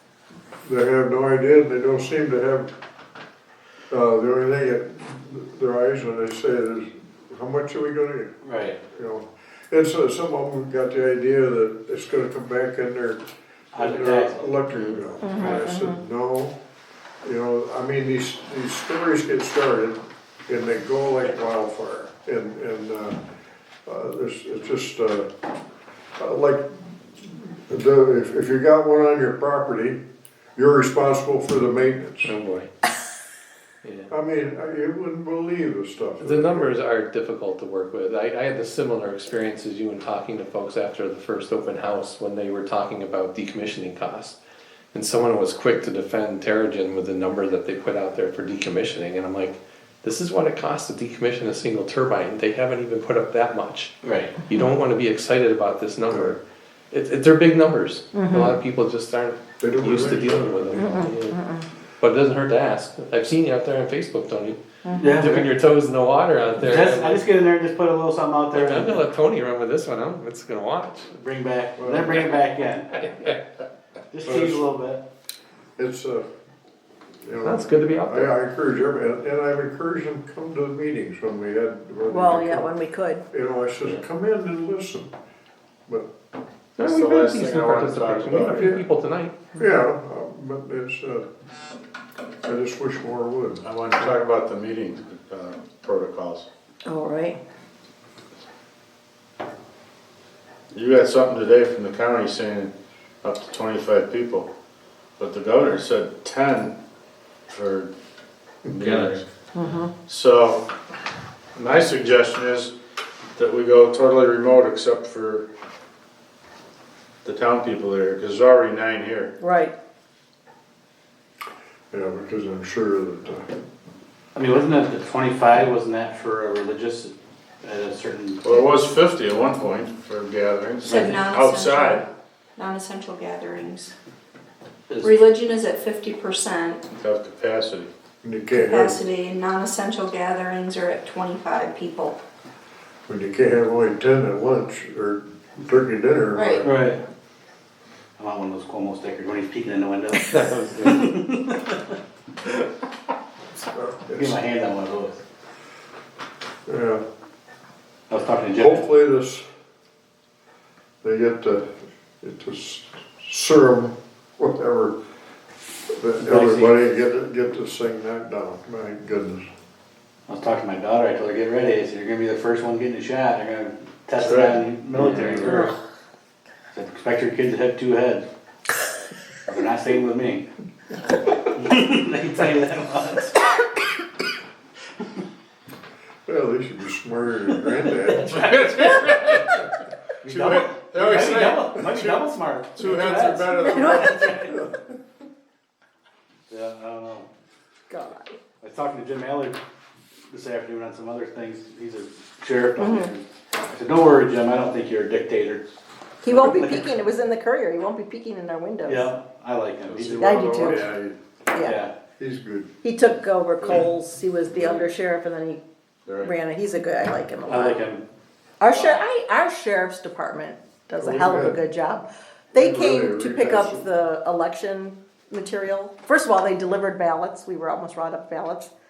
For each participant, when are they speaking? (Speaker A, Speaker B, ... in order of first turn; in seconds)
Speaker A: 0.6-2.7, 3.9-8.3, 8.9-13.2, 13.8-16.6, 17.2-23.2, 23.9-25.3, 26.2-26.6, 27.2-30.0, 30.6-32.3, 34.1-36.7, 56.1-56.4, 59.6-61.0, 71.8-72.2, 74.2-74.6, 75.8-76.2, 77.2-82.7, 83.3-85.1, 88.5-88.8, 89.6-91.2, 92.4-93.6, 121.9-123.5, 138.2-139.0, 143.1-146.9, 153.6-154.4, 156.7-157.0, 158.5-159.4, 161.0-161.7, 162.2-164.9, 165.9-169.4, 186.2-188.5, 212.2-212.7, 221.0-221.6, 222.5-223.8
Speaker B: 8.4-8.8, 13.7-14.5, 54.0-54.4, 65.0-65.5, 66.6-69.0, 71.1-72.9, 74.1-75.0, 124.3-128.6, 134.9-135.2, 146.6-147.0, 148.2-151.9, 154.1-155.2, 158.1-158.8, 166.2-166.8, 170.3-175.8, 176.7-178.2, 179.5-180.5, 181.5-183.4, 188.2-188.5, 190.2-194.7, 196.5-197.3, 198.6-199.6, 200.3-205.7, 206.3-206.9, 208.8-210.3, 211.6-211.9, 217.4-218.1, 218.7-219.0
Speaker C: 15.2-16.0, 58.1-58.6, 60.7-61.6, 64.8-65.1, 82.1-83.2, 96.8-97.4, 109.5-109.9, 119.4-119.7, 193.5-194.7, 197.9-198.3, 202.8-203.1, 206.2-209.1, 210.2-210.9, 211.5-211.8, 212.8-215.6, 216.2-217.8, 218.6-228.7
Speaker D: 32.2-32.7, 33.8-34.1, 36.2-44.4, 44.9-56.4, 56.9-61.4, 62.0-64.6, 65.1-67.2, 68.5-71.1, 73.0-73.4, 77.4-78.3, 86.8-89.4, 150.5-150.9
Speaker E: 86.8-88.7, 93.6-96.5, 100.7-104.5, 105.2-106.8, 107.5-107.9, 108.6-109.2, 110.1-110.6, 111.5-112.7, 113.3-115.5, 117.2-119.3, 128.4-132.0, 137.0-137.9, 174.2-175.3, 188.2-189.6, 190.2-194.2, 209.8-211.2, 214.5-214.9, 216.1-216.3
Speaker F: 130.8-133.9, 135.0-136.8, 138.5-142.2, 146.3-146.7